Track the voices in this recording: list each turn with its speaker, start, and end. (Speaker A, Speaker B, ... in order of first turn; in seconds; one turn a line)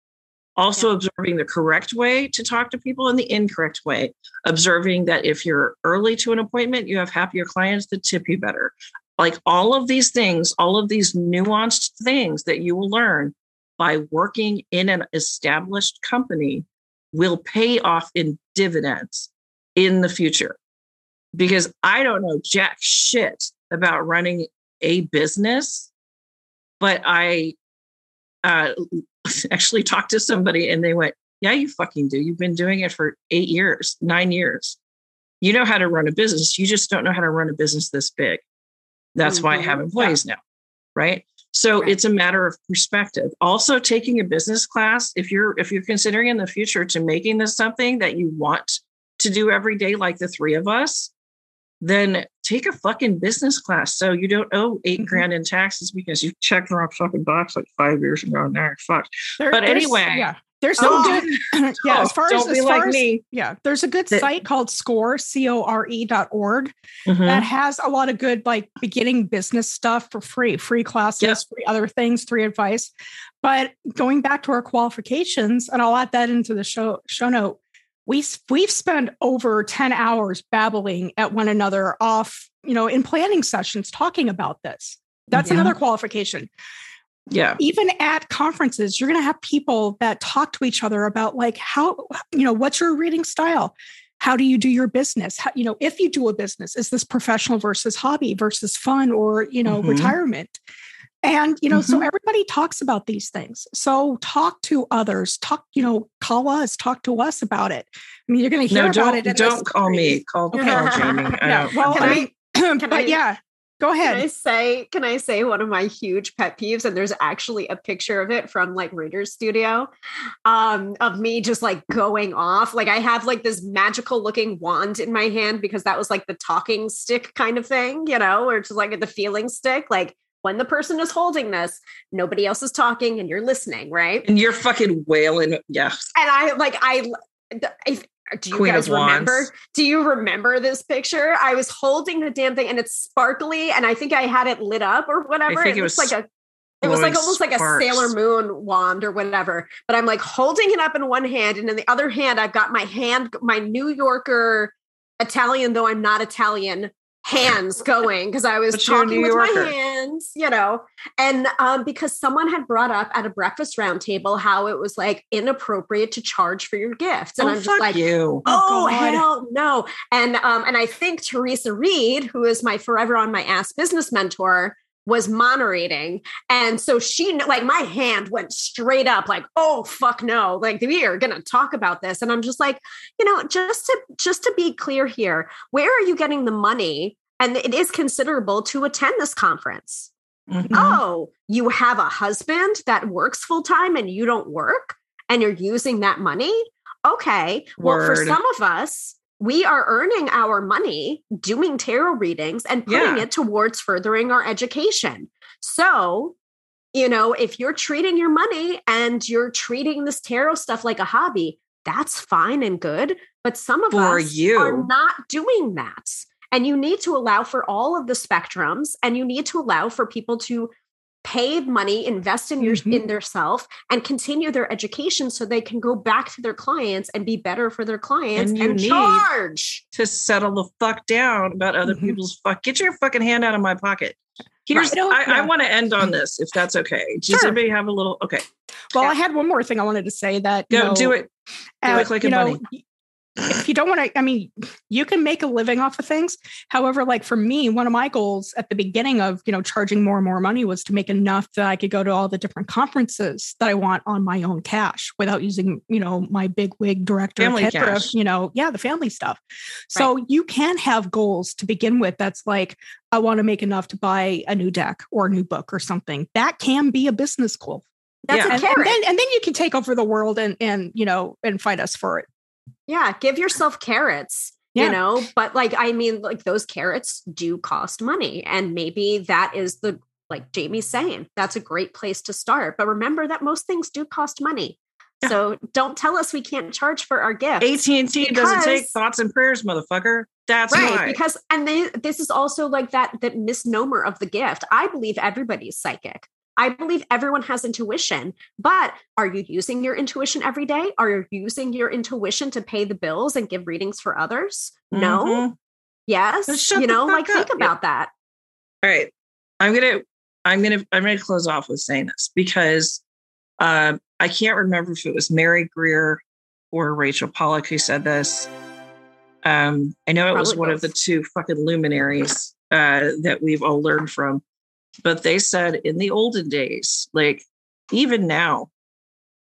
Speaker A: 0.6-20.6
Speaker A: 21.3-25.9
Speaker A: 26.8-27.6
Speaker A: 28.4-34.8
Speaker A: 35.4-38.5
Speaker A: 39.1-40.4
Speaker B: 39.2-40.1
Speaker A: 41.0-51.1
Speaker A: 51.8-63.2
Speaker C: 55.0-55.2
Speaker C: 59.4-66.7
Speaker B: 60.8-61.2
Speaker A: 67.1-67.5
Speaker C: 67.2-72.9
Speaker C: 73.4-86.5
Speaker A: 85.4-85.7
Speaker A: 87.3-87.6
Speaker C: 87.6-100.6
Speaker A: 99.7-100.2
Speaker C: 101.2-114.2
Speaker A: 101.7-102.0
Speaker A: 108.7-112.2
Speaker B: 110.5-113.2
Speaker B: 114.0-119.9
Speaker B: 120.5-134.3
Speaker A: 134.2-136.0
Speaker B: 136.2-146.3
Speaker A: 138.5-139.5
Speaker A: 145.5-146.1
Speaker B: 146.8-190.1
Speaker A: 146.8-148.1
Speaker A: 158.7-159.7
Speaker A: 167.4-168.4
Speaker C: 168.5-169.2
Speaker A: 190.5-191.0
Speaker C: 190.7-191.0
Speaker B: 190.7-206.4
Speaker A: 197.8-198.4
Speaker A: 202.9-203.3
Speaker B: 206.9-220.7
Speaker A: 213.9-214.9
Speaker B: 221.2-229.8
Speaker C: 222.6-223.0
Speaker A: 228.3-229.2
Speaker A: 229.9-238.4
Speaker C: 231.9-232.2
Speaker C: 234.7-235.5
Speaker C: 238.9-241.2
Speaker A: 240.7-241.3
Speaker C: 241.8-242.8
Speaker A: 241.9-242.6
Speaker C: 243.5-259.4
Speaker A: 257.4-258.1
Speaker C: 259.9-267.9
Speaker B: 268.3-269.0
Speaker A: 268.3-268.6
Speaker C: 268.4-272.3
Speaker B: 272.9-287.7
Speaker A: 287.6-291.2
Speaker B: 288.2-288.9
Speaker B: 290.7-305.4
Speaker A: 304.9-305.6
Speaker B: 306.1-308.1
Speaker A: 306.5-307.7
Speaker A: 308.8-313.0
Speaker A: 313.6-316.2
Speaker A: 316.7-318.5
Speaker A: 319.4-324.4
Speaker B: 320.3-320.9
Speaker A: 325.0-328.7